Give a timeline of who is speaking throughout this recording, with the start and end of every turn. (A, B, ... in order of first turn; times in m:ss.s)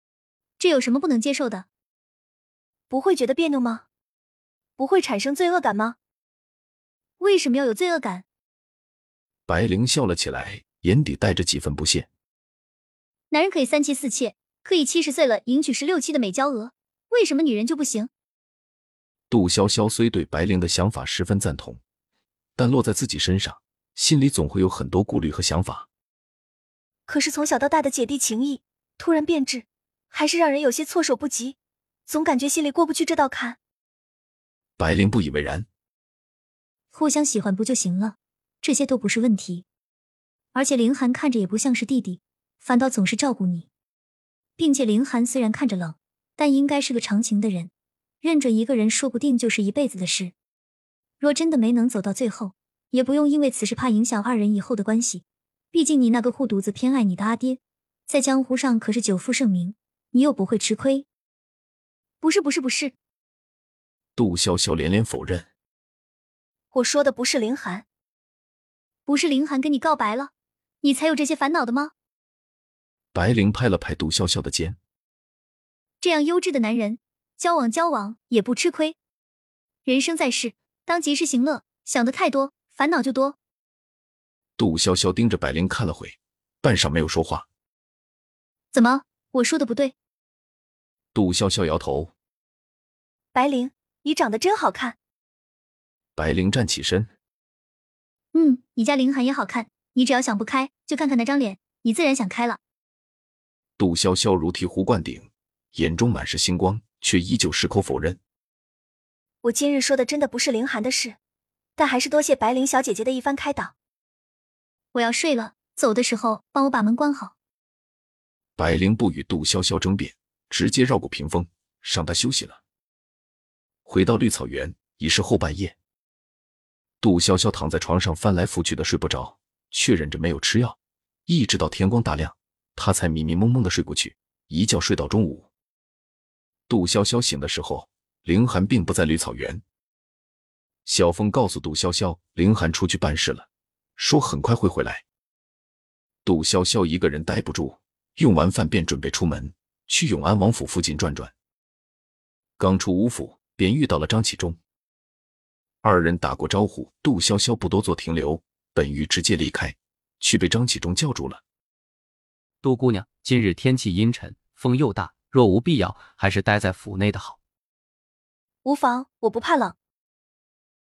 0:00.6-0:01.6 A
0:02.9-0:03.8 B
0:04.8-0:06.0 B
0:07.2-0:08.2 A
0:09.5-0:12.1 C
0:13.3-0:18.1 A
0:19.3-0:21.8 C
0:22.6-0:25.9 C
0:27.1-0:31.6 B
0:32.1-0:33.6 B
0:34.8-0:35.7 C
0:36.9-0:39.6 A
0:40.5-0:43.7 A
0:44.6-0:47.7 A
0:48.2-0:50.3 A
0:51.2-1:01.1 A
1:02.2-1:02.9 A
1:04.2-1:05.5 C
1:06.7-1:07.8 B
1:09.1-1:10.3 A
1:10.8-1:11.9 A
1:13.1-1:14.8 C
1:16.0-1:19.0 A
1:19.8-1:23.4 A
1:24.6-1:27.5 C
1:28.7-1:29.9 A
1:31.1-1:32.1 C
1:33.3-1:35.0 B
1:36.2-1:37.1 C
1:38.3-1:42.6 A
1:43.8-1:48.2 C
1:49.4-1:51.2 B
1:51.8-1:53.7 B
1:54.9-1:57.3 A
1:58.6-2:02.6 C
2:03.8-2:05.8 C
2:07.0-2:15.5 C
2:16.7-2:19.6 C
2:20.8-2:25.0 C
2:26.2-2:31.3 C
2:32.6-2:34.6 C
2:35.8-2:41.4 C
2:42.6-2:47.4 D
2:48.6-2:49.7 B